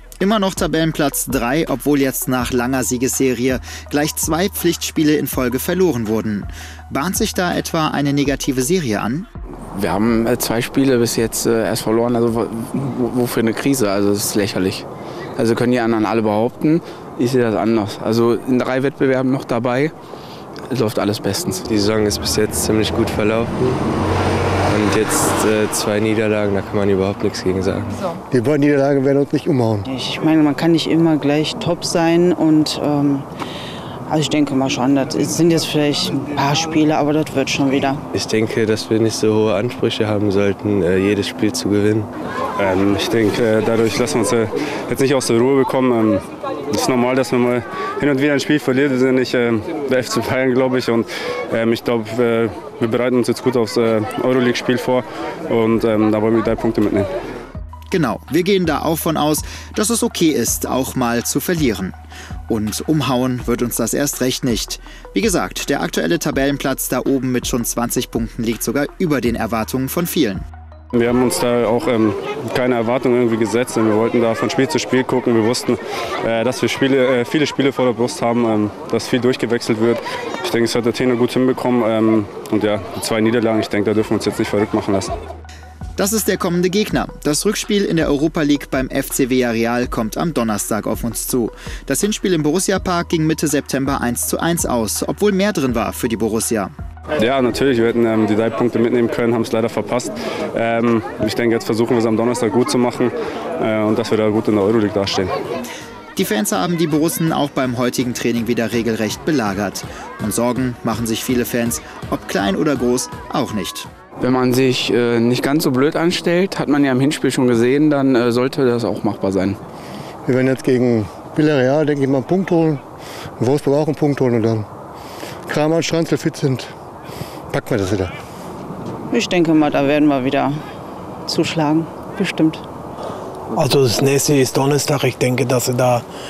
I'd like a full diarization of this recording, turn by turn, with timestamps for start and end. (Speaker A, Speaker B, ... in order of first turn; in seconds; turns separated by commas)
Speaker A: 0.2-9.3, Speaker B: 9.7-14.8, Speaker B: 15.4-19.9, Speaker B: 20.7-21.6, Speaker C: 21.7-23.8, Speaker C: 24.6-28.0, Speaker D: 28.3-29.9, Speaker E: 29.9-33.3, Speaker E: 34.1-38.0, Speaker C: 38.1-42.1, Speaker F: 42.6-57.1, Speaker A: 57.9-62.0, Speaker A: 62.5-70.4, Speaker F: 70.9-85.1, Speaker A: 86.0-96.7, Speaker F: 97.2-105.3, Speaker A: 106.2-113.9, Speaker B: 114.2-119.6, Speaker D: 120.3-122.8, Speaker D: 123.4-124.7, Speaker D: 125.5-126.7, Speaker D: 127.5-128.1, Speaker E: 129.1-130.6, Speaker E: 131.3-132.6, Speaker G: 133.5-136.1